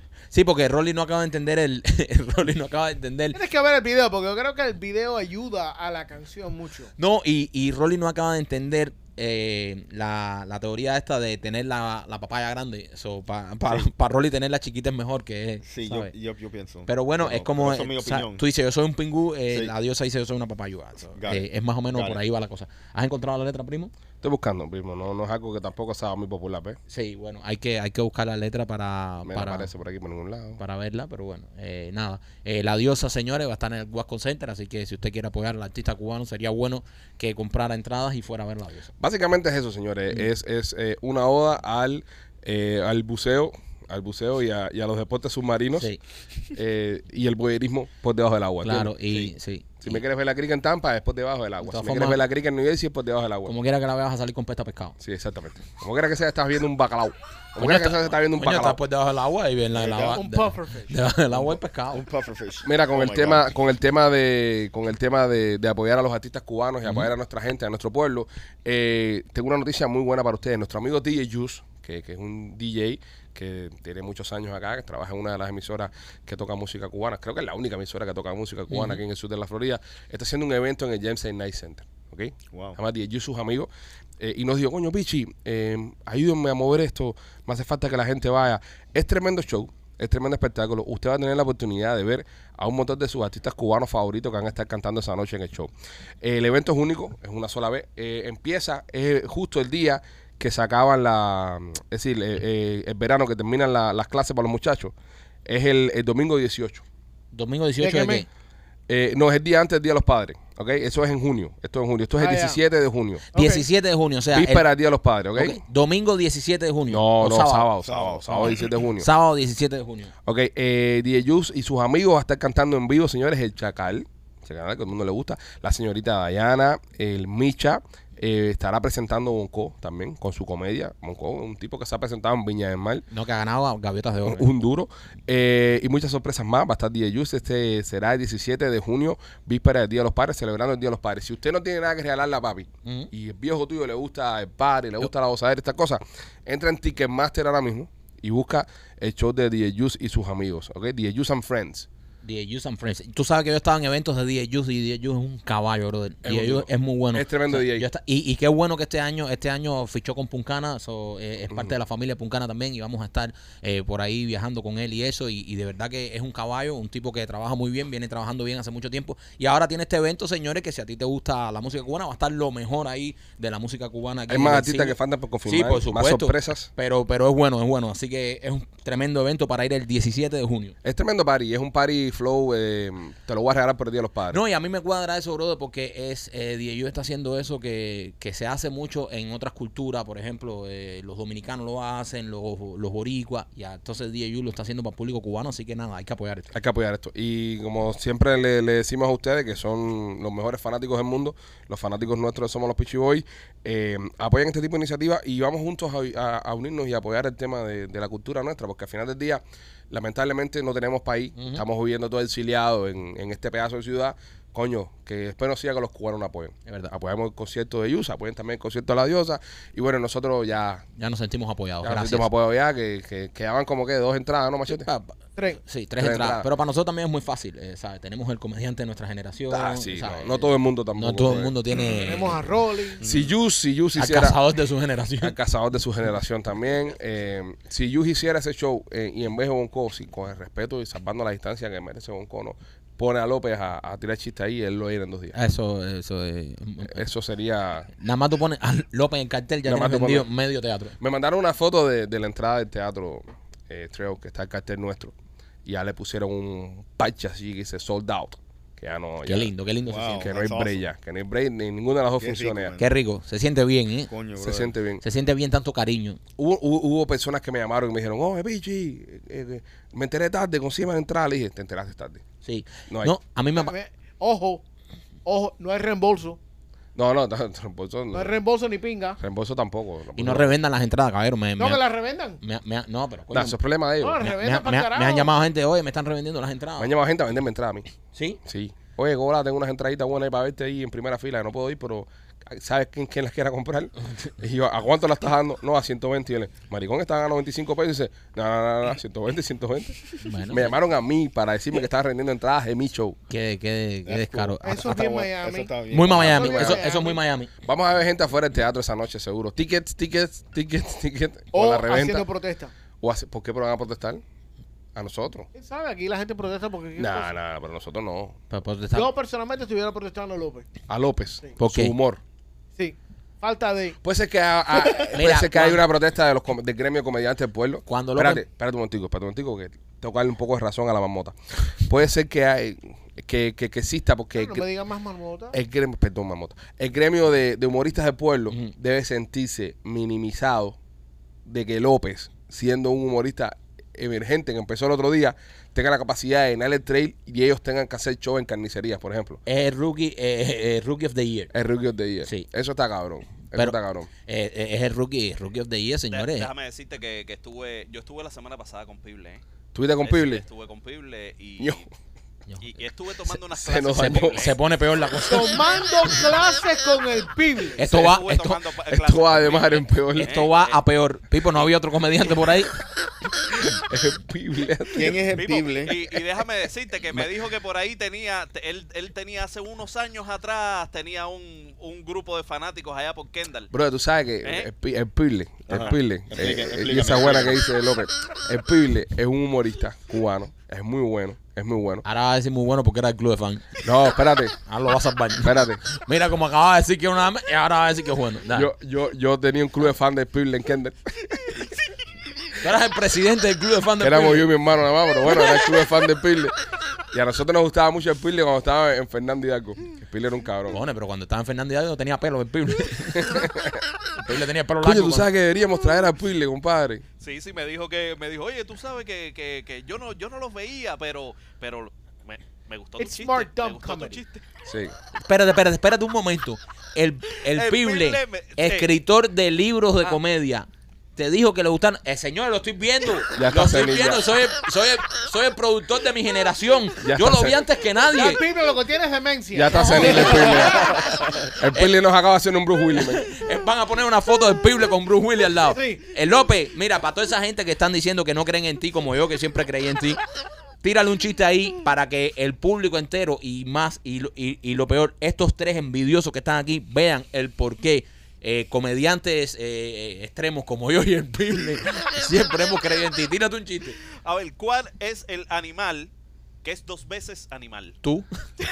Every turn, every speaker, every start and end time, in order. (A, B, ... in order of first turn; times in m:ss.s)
0:00.3-0:03.4 A
0:03.3-0:06.9 B
0:07.0-0:16.1 A
0:15.6-0:18.4 C
0:16.9-0:23.9 A
0:21.2-0:22.2 C
0:24.2-0:26.8 D
0:26.9-0:29.7 A
0:29.3-0:30.6 D
0:30.6-0:38.9 A
0:39.0-0:45.9 D
0:46.5-0:48.9 D
0:48.6-0:50.0 A
0:49.8-0:53.5 D
0:51.6-0:52.2 A
0:53.4-0:55.0 A
0:55.0-0:58.8 D
0:57.6-1:02.0 A
0:59.7-1:00.2 C
0:59.9-1:01.0 B
1:01.4-1:03.4 C
1:02.6-1:44.9 D
1:18.7-1:19.0 A
1:22.5-1:22.8 C
1:45.5-1:46.8 D
1:47.3-1:48.3 A
1:47.8-1:48.2 B
1:48.9-1:53.3 D
1:52.2-1:52.6 B
1:53.3-1:54.7 A
1:53.3-1:53.6 B
1:54.3-1:55.6 D
1:55.4-1:57.7 A
1:56.9-1:59.1 D
1:57.8-1:58.7 C
1:58.3-2:00.1 A
2:00.3-2:13.0 D
2:13.1-2:14.5 A
2:14.2-2:31.9 D
2:22.8-2:23.1 A
2:32.2-3:00.8 A
2:36.2-2:37.9 D
2:54.3-2:56.7 D
3:00.8-3:04.4 D
3:04.3-3:16.5 A
3:16.5-3:40.8 D
3:31.4-3:31.6 A
3:36.7-3:36.9 A
3:41.0-3:42.3 A
3:41.8-3:44.9 D
3:44.8-3:52.4 A
3:46.0-3:46.5 D
3:49.5-3:51.5 D
3:51.9-3:53.0 B
3:53.0-3:53.3 C
3:53.0-3:54.4 D
3:54.0-3:55.4 A
3:55.2-4:05.4 D
4:05.3-4:07.0 A
4:06.9-4:07.9 D
4:08.0-4:11.0 A
4:09.7-4:10.3 D
4:11.0-4:15.2 D
4:15.7-4:19.5 D
4:19.2-4:20.3 A
4:19.9-4:20.8 C
4:20.2-4:22.8 D
4:22.2-4:22.9 C
4:22.8-4:24.1 A
4:24.1-4:24.7 C
4:24.4-4:25.0 D
4:25.0-4:26.2 A
4:26.4-4:32.2 D
4:32.4-4:33.7 A
4:32.9-4:33.2 D
4:33.5-4:34.6 B
4:35.2-4:36.4 B
4:37.0-4:38.4 D
4:38.1-4:39.2 B
4:39.2-4:40.5 D
4:40.2-4:41.8 A
4:41.6-4:42.4 B
4:42.4-4:43.6 A
4:43.3-4:44.2 D
4:44.0-4:45.3 B
4:44.2-4:46.9 A
4:46.8-4:47.9 D
4:48.1-4:48.4 A
4:48.4-5:03.2 D
5:00.2-5:00.7 A
5:03.3-5:05.0 A
5:04.1-5:06.7 C
5:04.6-5:07.2 B
5:05.9-5:07.5 A
5:06.3-5:06.8 D
5:07.6-5:12.3 D
5:11.5-5:12.7 B
5:13.0-5:14.2 D
5:15.0-5:15.5 D
5:15.5-5:17.3 B
5:17.0-5:18.4 D
5:18.5-5:19.1 A
5:18.9-5:20.7 B
5:20.9-5:22.2 D
5:21.6-5:21.9 A
5:22.8-5:24.0 B
5:24.0-5:34.7 D
5:25.0-5:25.8 A
5:27.9-5:28.4 A
5:34.4-5:35.6 B
5:35.5-5:40.8 D
5:41.5-5:49.4 D
5:49.5-5:51.5 A
5:51.5-5:54.1 D
5:53.5-5:56.5 A
5:56.1-5:59.4 E
5:59.7-6:00.4 D
6:00.0-6:01.8 E
6:01.6-6:01.9 D
6:02.6-6:04.6 E
6:03.5-6:04.5 D
6:03.9-6:05.7 A
6:05.3-6:07.8 B
6:07.8-6:08.6 A
6:07.8-6:10.8 E
6:08.9-6:10.4 D
6:10.2-6:12.8 A
6:13.5-6:15.2 D
6:14.9-6:15.9 C
6:15.3-6:23.7 E
6:23.7-6:32.0 D
6:25.7-6:27.6 C
6:32.0-6:33.9 A
6:33.8-6:34.6 D
6:34.6-6:38.7 A
6:35.4-6:35.8 D
6:38.5-6:41.7 D
6:42.6-6:44.5 A
6:44.0-6:46.6 D
6:47.1-6:50.8 D
6:50.7-6:53.5 A
6:53.2-6:53.8 D
6:54.2-6:55.3 A
6:54.8-6:57.0 D
6:57.2-7:04.4 E
7:03.0-7:04.2 B
7:04.7-7:05.0 D
7:05.2-7:18.4 A
7:07.5-7:08.9 E
7:13.4-7:14.2 D
7:17.0-7:17.6 D
7:18.1-7:21.0 B
7:19.5-7:21.0 D
7:19.8-7:21.9 A
7:21.6-7:23.3 D
7:23.0-7:30.2 A
7:25.7-7:26.0 B
7:30.8-7:44.0 A
7:44.2-7:46.1 E
7:46.6-7:48.0 E